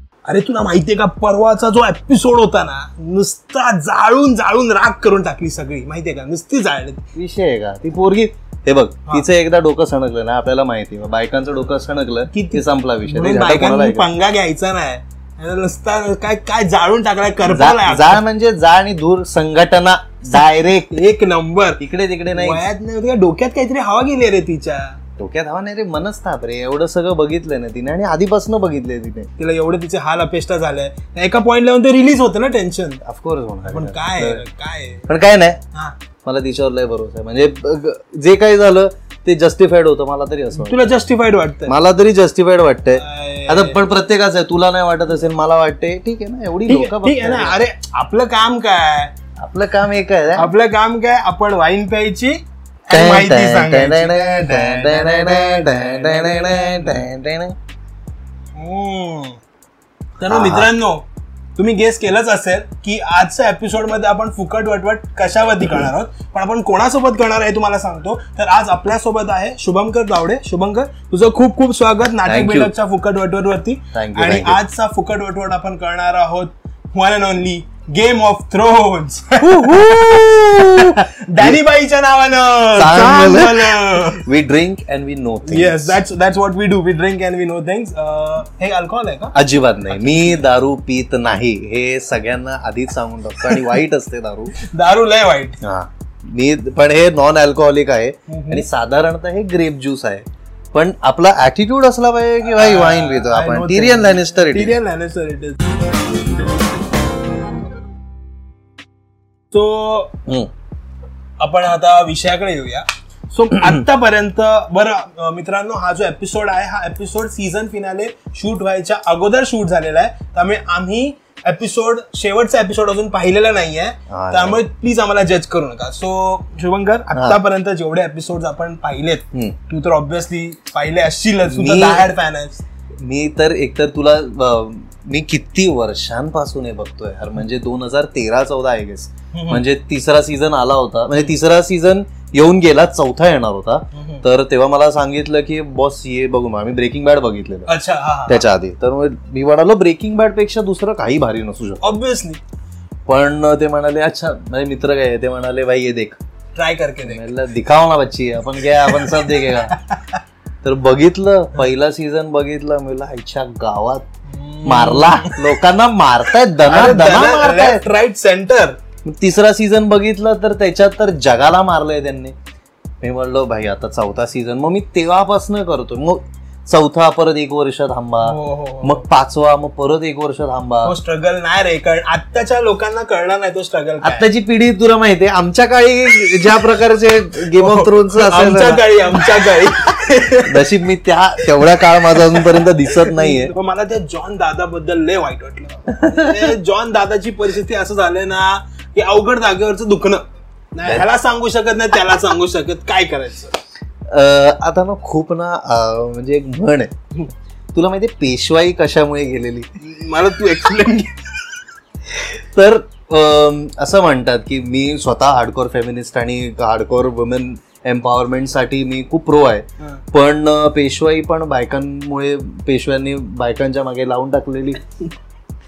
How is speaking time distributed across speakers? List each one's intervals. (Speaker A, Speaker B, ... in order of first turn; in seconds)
Speaker A: 0.2-7.0, 12.3-18.2, 20.9-25.0, 29.4-33.0, 33.6-35.1, 40.5-41.8, 42.9-43.8, 46.6-49.1, 50.3-57.1, 58.5-59.4, 60.2-61.0, 61.5-84.3, 85.4-89.3, 89.9-90.4, 94.5-95.6, 98.3-98.7, 102.5-106.0, 109.5-110.1, 111.4-132.6, 139.3-139.6, 143.9-144.2, 147.7-148.4, 151.8-152.4, 156.5-157.3, 158.8-160.2, 164.3-165.4, 166.6-168.8, 178.2-179.1, 180.8-184.3, 187.4-190.7, 191.5-203.6, 209.8-211.5
Speaker B: 7.1-14.1, 17.4-21.0, 21.8-22.6, 25.2-29.3, 33.0-34.4, 35.1-35.6, 36.2-41.0, 41.7-47.6, 49.4-50.5, 52.9-57.5, 60.2-60.7, 72.2-72.7, 73.9-74.6, 79.4-81.6, 82.8-86.0, 89.3-94.6, 95.6-104.8, 124.1-124.6, 127.1-127.4, 131.4-132.1, 133.0-147.7, 148.3-151.8, 153.1-156.2, 157.0-159.8, 160.6-164.1, 164.6-167.8, 169.0-172.3, 173.0-180.9, 184.0-189.5, 190.4-193.5, 196.0-196.4, 204.1-206.9, 207.7-209.7, 212.1-224.8